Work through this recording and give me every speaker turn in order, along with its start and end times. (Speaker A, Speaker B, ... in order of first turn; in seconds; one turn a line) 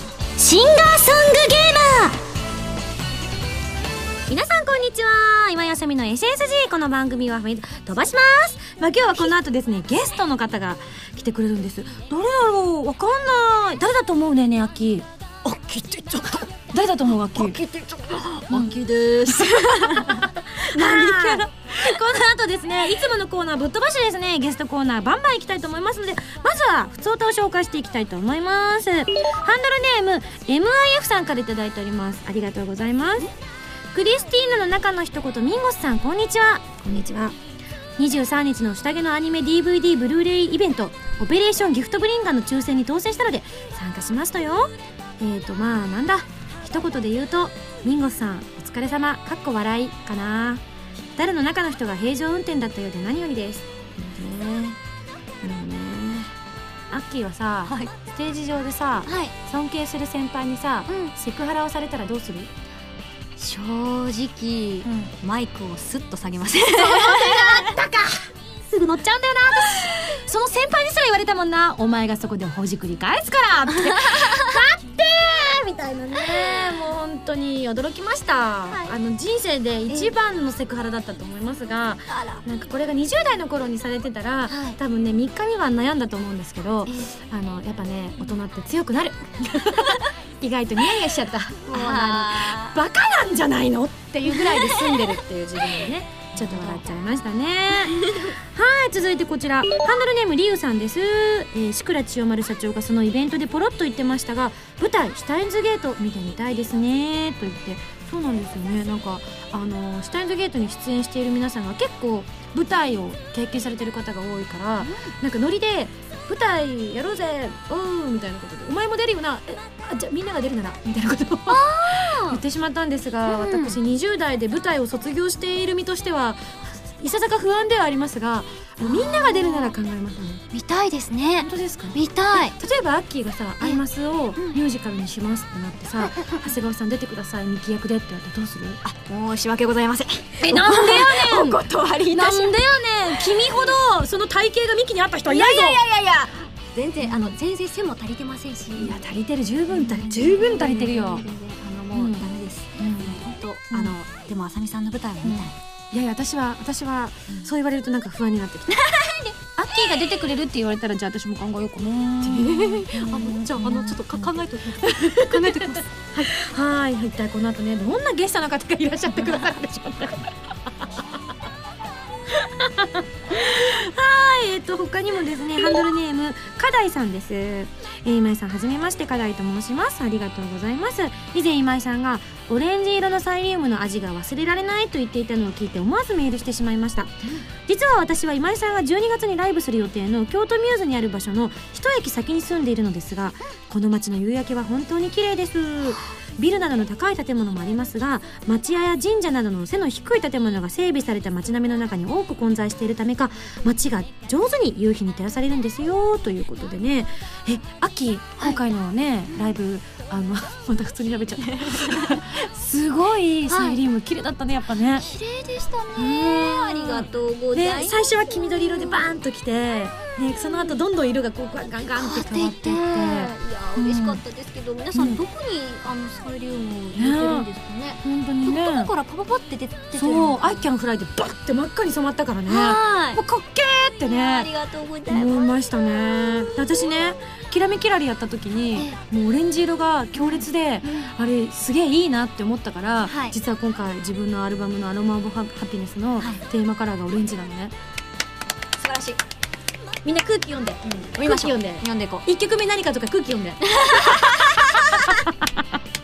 Speaker A: 0.4-2.2
Speaker A: 4.3-15.1
Speaker B: 15.4-16.4
Speaker A: 16.7-17.6
Speaker B: 17.2-21.9
Speaker A: 18.5-33.3
Speaker A: 33.9-37.4
Speaker A: 38.0-50.6
Speaker A: 51.1-54.8
Speaker A: 55.4-56.3
Speaker A: 56.9-62.5
Speaker B: 57.6-57.9
Speaker B: 59.1-59.3
Speaker B: 60.9-61.1
Speaker B: 63.4-67.7
Speaker A: 64.8-65.1
Speaker A: 66.8-130.4
Speaker B: 69.6-69.9
Speaker B: 73.8-74.5
Speaker B: 76.2-76.7
Speaker B: 79.9-80.1
Speaker B: 82.1-82.4
Speaker B: 84.5-84.8
Speaker B: 86.8-87.1
Speaker B: 91.7-92.8
Speaker B: 94.3-95.2
Speaker B: 96.3-96.8
Speaker B: 97.8-98.3
Speaker B: 114.8-115.1
Speaker B: 121.5-122.4
Speaker B: 123.2-123.8
Speaker B: 128.8-129.8
Speaker B: 130.5-132.5
Speaker A: 131.4-138.8
Speaker B: 136.0-136.5
Speaker B: 138.8-142.5
Speaker A: 140.4-145.8
Speaker B: 143.1-143.7
Speaker B: 145.2-149.1
Speaker A: 148.8-151.2
Speaker B: 149.7-155.5
Speaker A: 151.9-153.9
Speaker A: 155.2-158.8
Speaker B: 158.7-159.3
Speaker A: 159.5-170.3
Speaker B: 162.2-166.3
Speaker A: 172.3-215.1
Speaker B: 209.3-209.5
Speaker B: 211.5-212.2
Speaker B: 213.5-213.8
Speaker B: 214.9-218.0
Speaker A: 216.0-224.2
Speaker B: 218.6-219.1
Speaker B: 220.3-220.8
Speaker B: 222.0-230.7
Speaker A: 224.9-225.2
Speaker A: 226.9-227.5
Speaker A: 228.0-228.9
Speaker A: 229.9-234.5
Speaker B: 232.5-233.2
Speaker B: 234.0-235.5
Speaker A: 235.1-247.7
Speaker B: 236.0-236.6
Speaker B: 240.2-241.1
Speaker B: 243.1-243.3
Speaker B: 248.8-249.2
Speaker A: 250.0-255.5
Speaker B: 251.0-252.2
Speaker B: 253.7-255.0